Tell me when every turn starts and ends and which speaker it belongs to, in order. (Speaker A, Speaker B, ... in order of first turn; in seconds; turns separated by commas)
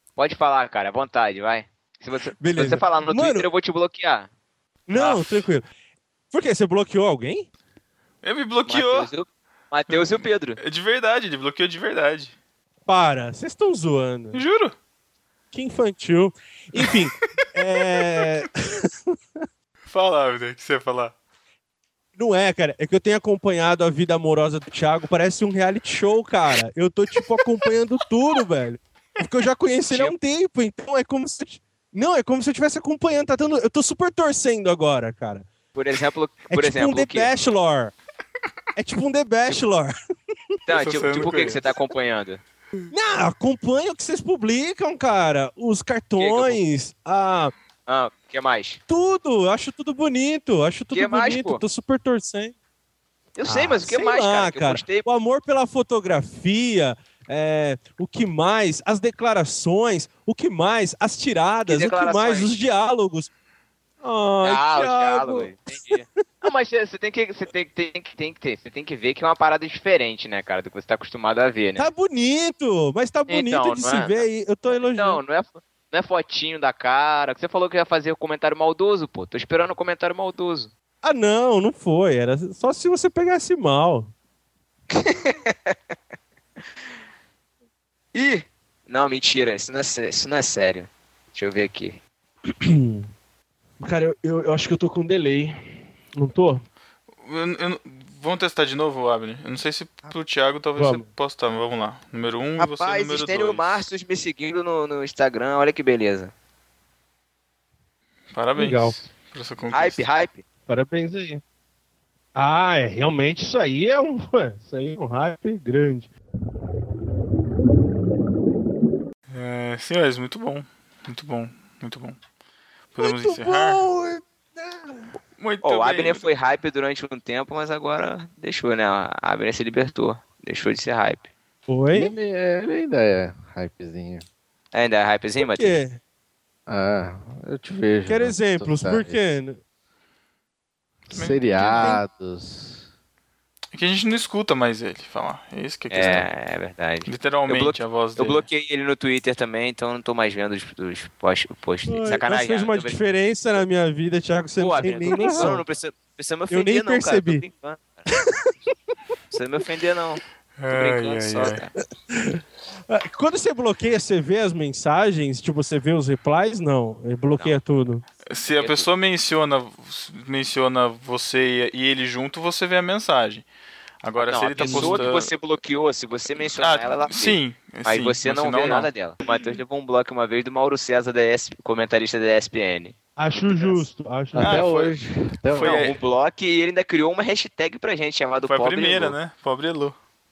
Speaker A: 0.2-4.3, Speaker B: 2.4-3.5, Speaker B: 4.9-5.7, Speaker A: 4.9-5.2, Speaker B: 6.3-7.5, Speaker C: 8.2-9.1, Speaker A: 8.7-10.6, Speaker C: 9.9-12.3, Speaker B: 12.8-14.4, Speaker C: 14.3-14.7, Speaker B: 15.5-19.2, Speaker C: 19.9-21.1, Speaker B: 22.2-35.5, Speaker A: 35.7-37.3, Speaker B: 36.5-37.9, Speaker B: 38.8-39.9, Speaker A: 40.7-42.4, Speaker C: 40.7-41.6, Speaker B: 42.9-47.5, Speaker A: 46.2-46.6, Speaker A: 47.9-48.8, Speaker B: 48.9-52.5, Speaker A: 50.9-51.6, Speaker A: 53.4-55.1, Speaker B: 53.5-63.3, Speaker A: 61.7-62.5, Speaker B: 64.0-66.0, Speaker A: 64.4-71.9, Speaker B: 71.8-75.2, Speaker A: 73.3-80.7, Speaker B: 81.0-84.1, Speaker A: 84.9-85.8, Speaker A: 88.1-92.0, Speaker B: 92.6-93.1, Speaker B: 93.8-96.6, Speaker C: 97.2-103.6, Speaker B: 100.8-101.1, Speaker A: 102.6-106.3, Speaker C: 108.3-110.1, Speaker B: 108.5-109.0, Speaker A: 109.7-110.4, Speaker B: 110.7-111.4, Speaker B: 112.3-116.1, Speaker C: 119.3-122.2, Speaker C: 122.9-123.8, Speaker B: 123.0-125.1, Speaker C: 125.4-126.3, Speaker A: 125.6-131.3, Speaker B: 131.7-132.1, Speaker D: 131.9-134.2, Speaker A: 134.7-135.8, Speaker B: 135.4-136.0, Speaker D: 136.7-139.2, Speaker B: 138.1-139.6, Speaker D: 141.1-142.9, Speaker C: 141.1-142.0, Speaker B: 141.5-142.0, Speaker C: 143.7-146.3, Speaker A: 145.9-153.1, Speaker C: 147.1-148.4, Speaker B: 151.9-155.6, Speaker A: 154.6-158.1, Speaker D: 155.0-155.5, Speaker B: 156.5-157.4, Speaker A: 159.3-161.7, Speaker C: 160.6-161.7, Speaker B: 162.1-168.0, Speaker C: 168.3-173.4, Speaker A: 168.5-168.9, Speaker C: 174.0-175.3, Speaker A: 174.2-183.8, Speaker B: 174.6-175.0, Speaker C: 176.4-178.9, Speaker B: 183.2-184.7, Speaker D: 184.3-185.9, Speaker C: 184.4-184.9, Speaker C: 185.5-186.0, Speaker A: 185.5-189.2, Speaker C: 188.4-189.9